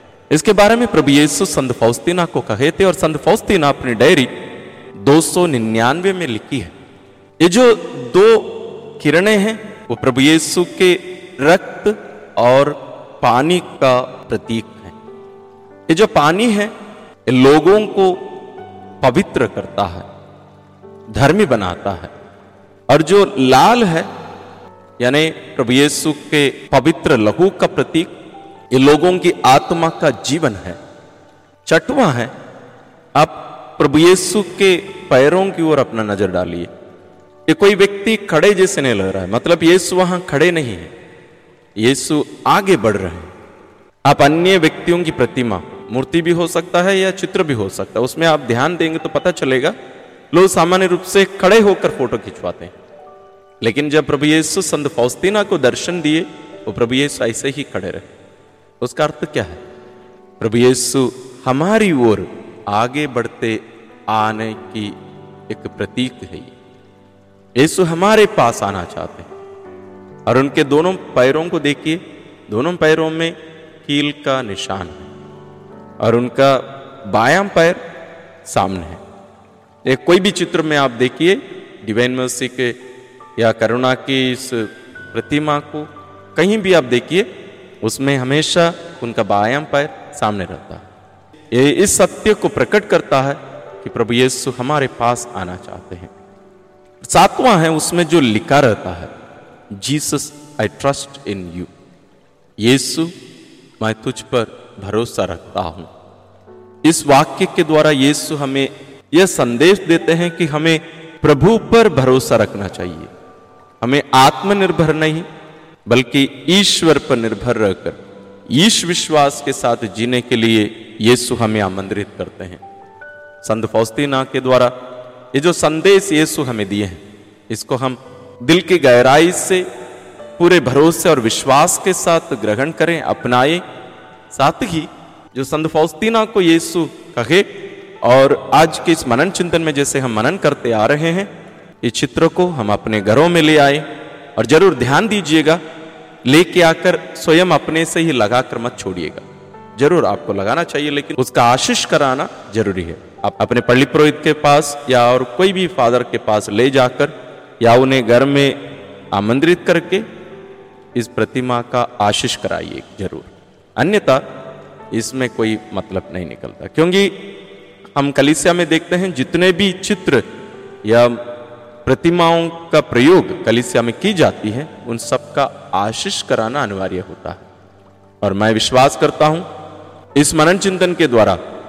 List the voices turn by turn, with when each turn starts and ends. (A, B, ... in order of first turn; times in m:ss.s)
0:00.3-0:04.3 A
0:05.0-0:06.7 A
0:07.4-0:15.0 A
0:15.9-0:16.7 A
0:17.3-0:18.2 A
0:19.0-0:20.1 A
0:21.1-0:22.1 A
0:22.9-0:24.1 A
0:25.0-0:28.1 A
0:28.7-0:30.8 A
0:31.7-0:32.3 A
0:33.2-0:36.7 A
0:37.5-0:40.9 A
0:41.8-0:43.3 A
0:44.0-0:49.8 A
0:50.3-0:52.7 A
0:53.6-0:58.1 A
0:58.8-0:59.6 A
1:00.4-1:05.0 A
1:05.5-1:06.5 A
1:07.6-1:09.3 A
1:10.3-1:15.1 A
1:16.0-1:17.8 A
1:18.4-1:19.0 A
1:19.8-1:22.8 A
1:23.4-1:27.3 A
1:27.8-1:30.8 A
1:31.5-1:36.1 A
1:37.0-1:39.1 A
1:39.7-1:41.7 A
1:42.6-1:43.1 A
1:43.8-1:45.9 A
1:46.8-1:53.1 A
1:53.8-1:55.3 A
1:55.9-2:02.6 A
2:03.4-2:04.8 A
2:05.3-2:09.7 A
2:10.4-2:13.6 A
2:14.3-2:17.5 A
2:18.0-2:21.3 A
2:21.8-2:25.6 A
2:26.2-2:29.2 A
2:29.8-2:38.6 A
2:39.1-2:40.1 A
2:41.0-2:44.2 A
2:44.9-2:47.2 A
2:48.0-2:50.2 A
2:50.8-2:51.2 A
2:51.8-2:57.4 A
2:58.2-2:59.5 A
3:00.2-3:01.4 A